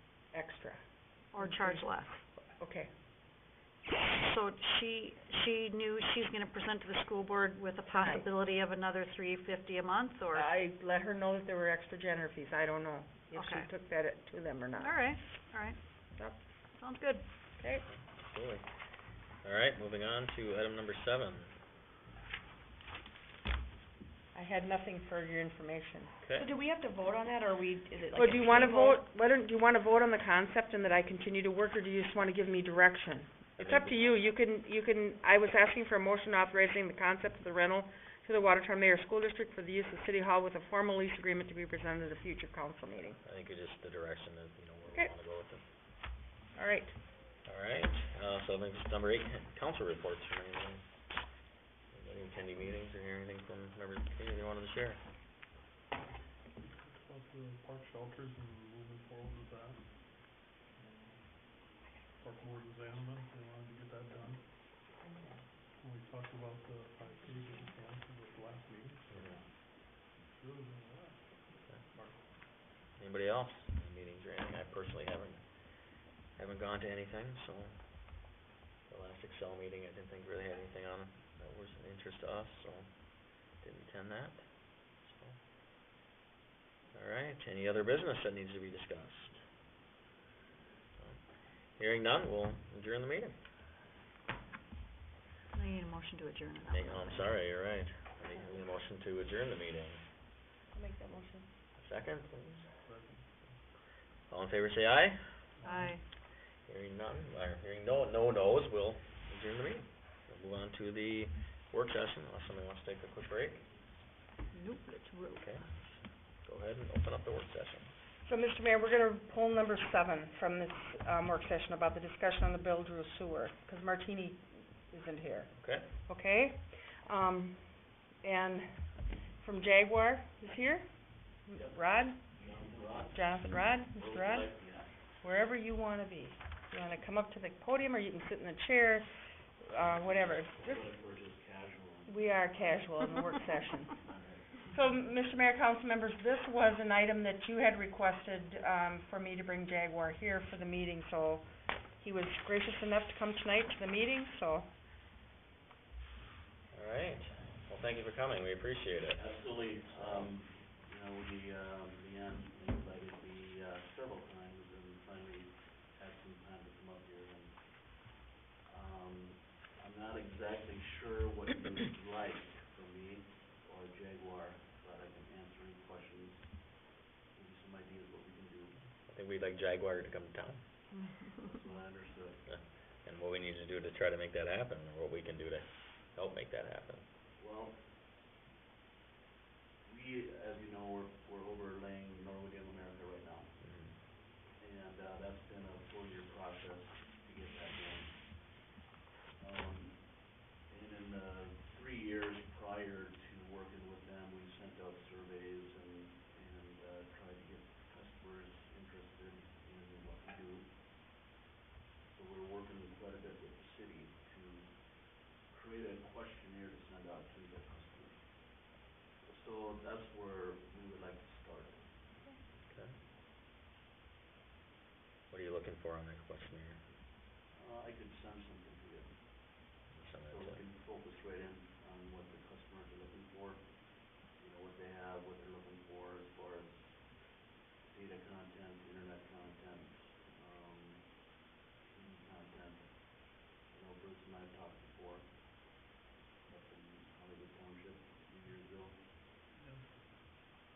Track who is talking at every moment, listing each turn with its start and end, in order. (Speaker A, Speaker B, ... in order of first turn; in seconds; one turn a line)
Speaker A: 0.3-2.9
Speaker B: 1.3-2.2
Speaker B: 3.9-10.5
Speaker A: 7.9-8.2
Speaker A: 10.3-15.3
Speaker B: 13.3-13.7
Speaker B: 14.8-16.2
Speaker B: 16.7-17.2
Speaker A: 17.6-17.8
Speaker C: 17.9-18.6
Speaker C: 19.4-21.6
Speaker A: 24.3-26.1
Speaker C: 26.2-26.5
Speaker D: 26.4-29.0
Speaker B: 28.1-28.7
Speaker A: 28.1-43.2
Speaker C: 33.6-34.1
Speaker C: 43.2-45.6
Speaker A: 46.5-47.0
Speaker C: 47.4-50.8
Speaker C: 51.9-55.0
Speaker E: 56.6-59.9
Speaker E: 60.8-61.1
Speaker E: 62.2-64.4
Speaker E: 65.8-69.4
Speaker C: 69.1-69.4
Speaker E: 70.2-72.2
Speaker C: 73.0-75.4
Speaker C: 76.3-77.8
Speaker C: 78.9-83.0
Speaker C: 83.5-84.4
Speaker C: 85.0-85.4
Speaker C: 86.9-89.4
Speaker C: 91.8-93.3
Speaker B: 95.5-97.3
Speaker C: 96.7-100.0
Speaker A: 100.7-101.5
Speaker C: 101.8-102.7
Speaker E: 102.8-103.2
Speaker C: 104.3-105.4
Speaker E: 105.6-105.9
Speaker B: 105.6-106.0
Speaker C: 106.6-113.7
Speaker B: 114.5-115.5
Speaker C: 115.3-117.9
Speaker A: 118.2-132.2
Speaker C: 125.6-125.9
Speaker F: 132.3-133.3
Speaker A: 133.1-134.5
Speaker F: 133.9-135.0
Speaker A: 135.1-139.1
Speaker A: 139.6-140.8
Speaker F: 139.8-142.2
Speaker A: 142.1-143.9
Speaker F: 143.9-144.7
Speaker A: 144.7-154.7
Speaker C: 156.7-159.2
Speaker F: 159.2-176.7
Speaker C: 159.8-160.3
Speaker F: 177.3-178.8
Speaker C: 179.0-180.6
Speaker B: 180.9-181.5
Speaker F: 181.4-182.4
Speaker C: 182.5-187.0
Speaker F: 187.4-187.8
Speaker F: 189.8-193.5
Speaker C: 193.6-193.9
Speaker F: 194.6-198.4
Speaker F: 199.4-210.7
Speaker F: 212.0-218.6
Speaker F: 219.2-221.9
Speaker C: 222.7-222.9
Speaker C: 225.3-226.8
Speaker F: 227.5-229.2
Speaker C: 229.9-230.6
Speaker F: 230.3-237.2
Speaker F: 237.8-241.2
Speaker F: 241.9-245.3
Speaker F: 246.5-249.0
Speaker E: 249.5-250.0